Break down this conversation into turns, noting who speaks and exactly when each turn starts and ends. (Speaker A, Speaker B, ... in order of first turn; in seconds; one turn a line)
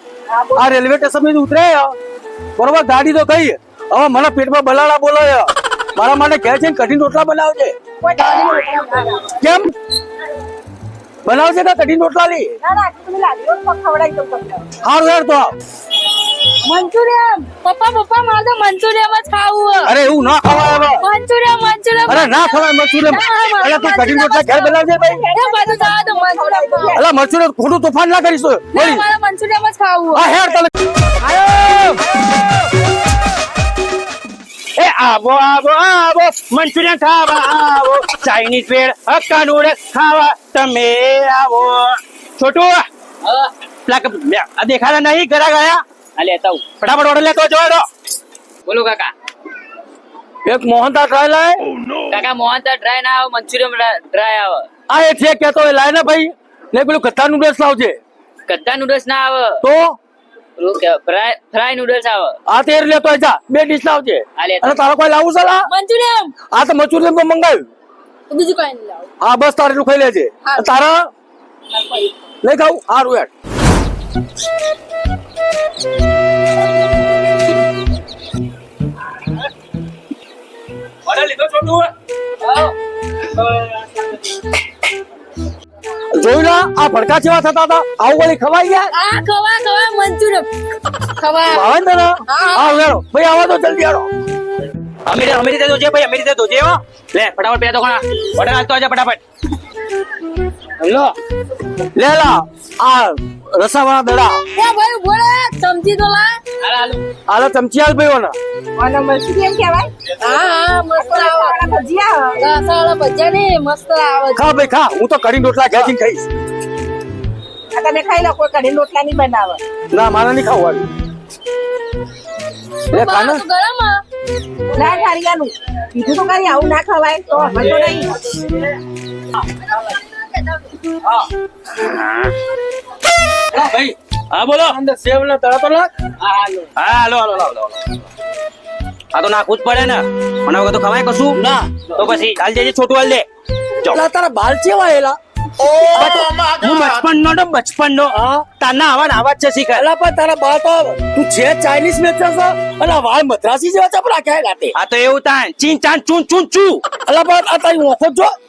Speaker A: 0.3-0.7
Speaker B: 0.6-1.9
Speaker B: 2.5-7.7
Speaker A: 8.0-9.3
Speaker C: 8.3-8.6
Speaker B: 9.4-9.7
Speaker B: 11.2-12.5
Speaker A: 12.6-14.7
Speaker B: 14.8-15.5
Speaker C: 16.6-19.9
Speaker D: 19.9-20.7
Speaker B: 20.3-21.0
Speaker C: 20.8-24.7
Speaker B: 22.1-25.2
Speaker A: 24.7-27.0
Speaker C: 25.3-26.9
Speaker B: 26.9-29.1
Speaker C: 28.7-30.2
Speaker B: 30.1-30.7
Speaker B: 31.4-31.9
Speaker D: 34.8-42.9
Speaker D: 43.9-45.8
Speaker E: 46.2-46.6
Speaker D: 46.8-47.8
Speaker E: 48.6-49.1
Speaker B: 50.4-51.6
Speaker E: 52.1-54.7
Speaker B: 54.9-58.0
Speaker E: 58.5-59.6
Speaker B: 59.6-60.0
Speaker E: 60.6-62.4
Speaker B: 62.5-65.7
Speaker E: 64.4-64.7
Speaker C: 65.8-66.3
Speaker B: 66.5-67.7
Speaker C: 68.3-69.1
Speaker B: 69.2-71.1
Speaker C: 71.8-72.1
Speaker B: 72.4-73.3
Speaker B: 81.1-81.9
Speaker B: 86.1-88.9
Speaker C: 88.9-90.5
Speaker C: 91.2-91.7
Speaker B: 91.5-94.1
Speaker C: 92.3-92.7
Speaker D: 95.0-99.2
Speaker E: 100.8-101.1
Speaker B: 101.9-104.4
Speaker C: 104.5-106.4
Speaker E: 106.6-107.0
Speaker B: 107.3-108.3
Speaker A: 108.8-109.9
Speaker C: 110.2-111.6
Speaker A: 111.0-112.4
Speaker C: 112.3-114.5
Speaker B: 114.3-116.3
Speaker A: 117.7-119.6
Speaker B: 119.9-120.9
Speaker C: 122.9-124.0
Speaker B: 122.9-123.4
Speaker A: 124.7-128.2
Speaker D: 131.7-132.3
Speaker B: 133.5-134.0
Speaker D: 134.3-134.8
Speaker B: 134.7-135.9
Speaker D: 136.8-137.8
Speaker D: 139.1-141.4
Speaker B: 141.3-141.9
Speaker D: 141.9-143.2
Speaker B: 143.9-145.2
Speaker D: 145.6-149.9
Speaker B: 145.8-147.0
Speaker B: 148.1-148.5
Speaker B: 149.7-154.7
Speaker D: 154.7-156.8
Speaker B: 157.1-158.3